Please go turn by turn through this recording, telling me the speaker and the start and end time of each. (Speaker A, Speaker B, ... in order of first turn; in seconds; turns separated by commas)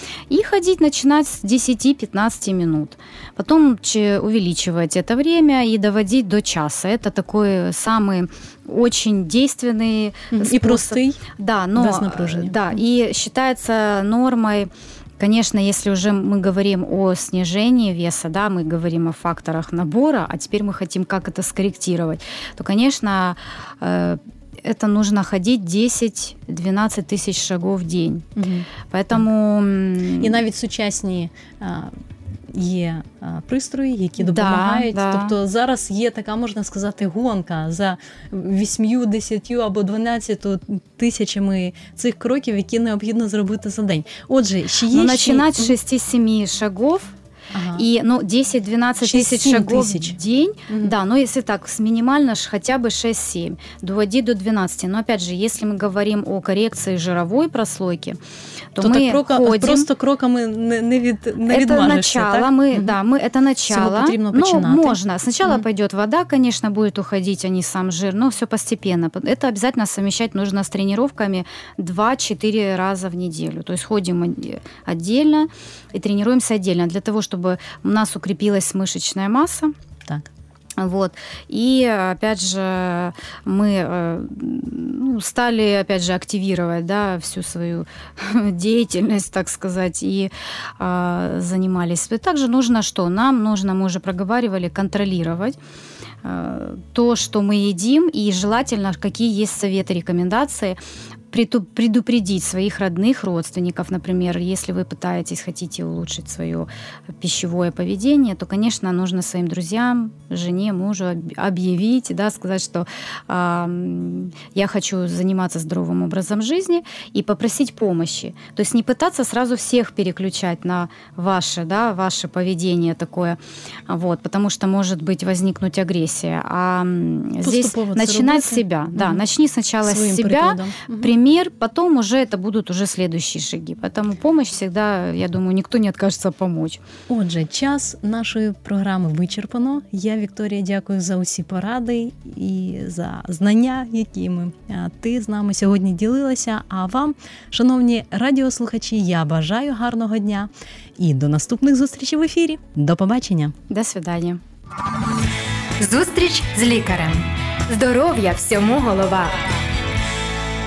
Speaker A: 0.3-28.3, Speaker B: 10.3-11.2, Speaker B: 11.8-12.7, Speaker B: 28.4-29.3, Speaker A: 28.9-30.4, Speaker B: 30.2-31.9, Speaker B: 32.5-45.8, Speaker A: 34.2-35.4, Speaker A: 44.9-47.1, Speaker B: 47.5-47.9, Speaker A: 47.8-58.2, Speaker B: 49.0-51.0, Speaker A: 58.8-59.9, Speaker B: 58.8-63.0, Speaker A: 61.5-79.7, Speaker B: 63.7-65.6, Speaker A: 80.8-95.6, Speaker A: 96.2-100.8, Speaker A: 101.3-106.7, Speaker A: 107.2-136.8, Speaker B: 127.4-129.2, Speaker B: 129.8-131.1, Speaker B: 137.1-153.5, Speaker A: 153.7-154.4, Speaker C: 155.8-159.4